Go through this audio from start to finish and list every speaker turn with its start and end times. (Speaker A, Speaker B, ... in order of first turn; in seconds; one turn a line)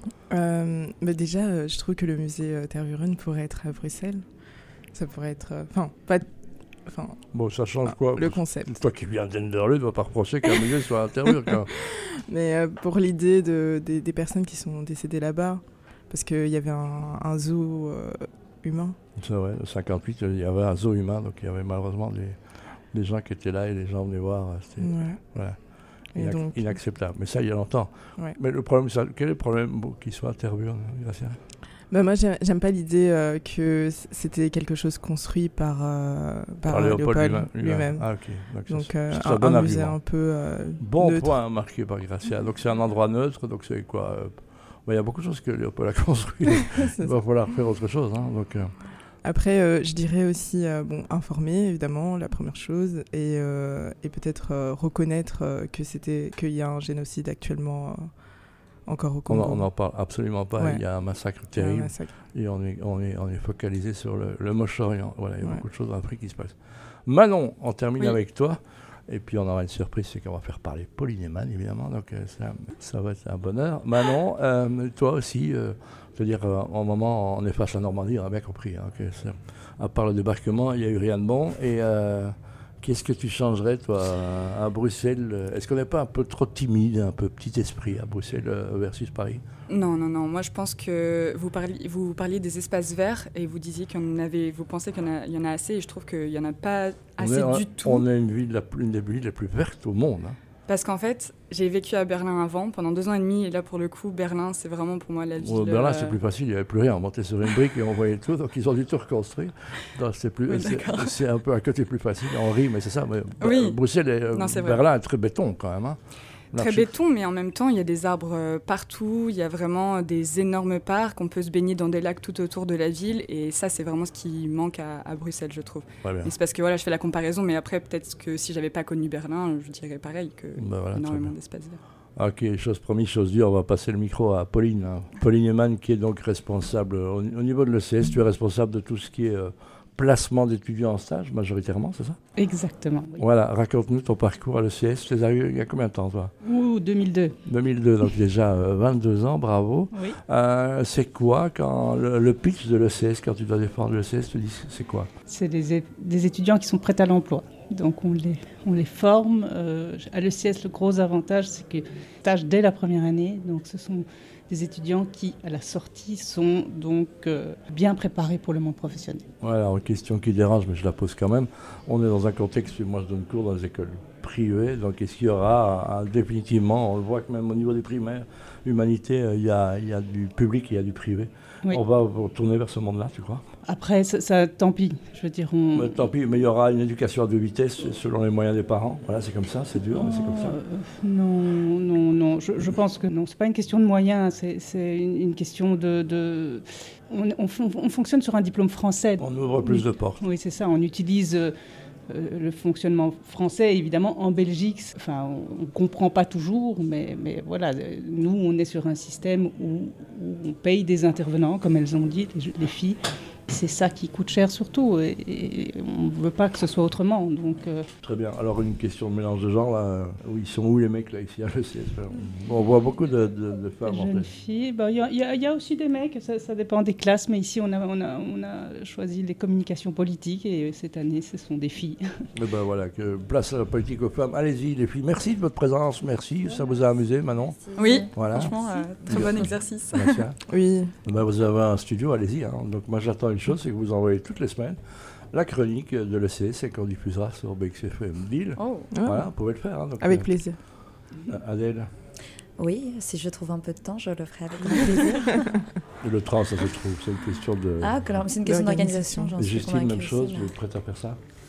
Speaker A: 0.3-4.2
Speaker A: 4.9-6.3
Speaker A: 6.9-7.2
Speaker B: 7.3-11.9
Speaker A: 7.9-8.8
Speaker A: 11.9-19.0
Speaker B: 19.2-22.4
Speaker B: 22.9-25.6
Speaker A: 24.8-25.2
Speaker A: 26.1-26.8
Speaker B: 26.1-31.4
Speaker A: 31.9-38.1
Speaker B: 36.7-40.0
Speaker A: 38.7-41.4
Speaker B: 40.8-48.7
Speaker A: 46.7-47.1
Speaker A: 49.2-58.1
Speaker A: 58.9-59.7
Speaker B: 59.3-66.5
Speaker A: 60.6-60.8
Speaker A: 61.6-62.1
Speaker B: 67.1-89.4
Speaker C: 89.7-98.0
Speaker B: 97.2-100.4
Speaker C: 100.7-106.2
Speaker B: 105.4-116.0
Speaker C: 110.5-111.2
Speaker C: 113.4-113.8
Speaker C: 114.3-114.8
Speaker B: 116.5-116.9
Speaker C: 116.5-131.8
Speaker B: 126.0-126.3
Speaker B: 130.6-131.3
Speaker B: 132.2-142.2
Speaker D: 142.4-143.2
Speaker B: 143.2-146.3
Speaker D: 146.4-147.3
Speaker B: 147.4-155.1
Speaker D: 155.3-169.2
Speaker B: 169.4-183.5
Speaker D: 183.7-186.1
Speaker B: 185.7-190.6
Speaker D: 189.9-201.5
Speaker B: 199.2-200.2
Speaker D: 202.1-217.9
Speaker B: 218.0-224.3
Speaker D: 223.8-232.1
Speaker B: 232.3-240.4
Speaker E: 237.6-238.6
Speaker C: 237.8-240.2
Speaker A: 240.5-240.9
Speaker B: 241.0-244.8
Speaker B: 245.3-250.3
Speaker C: 248.6-248.9
Speaker A: 248.9-249.3
Speaker A: 250.0-250.6
Speaker B: 251.3-251.9
Speaker E: 252.6-255.6
Speaker B: 256.0-258.0
Speaker E: 257.8-260.5
Speaker A: 258.4-259.4
Speaker B: 259.4-261.2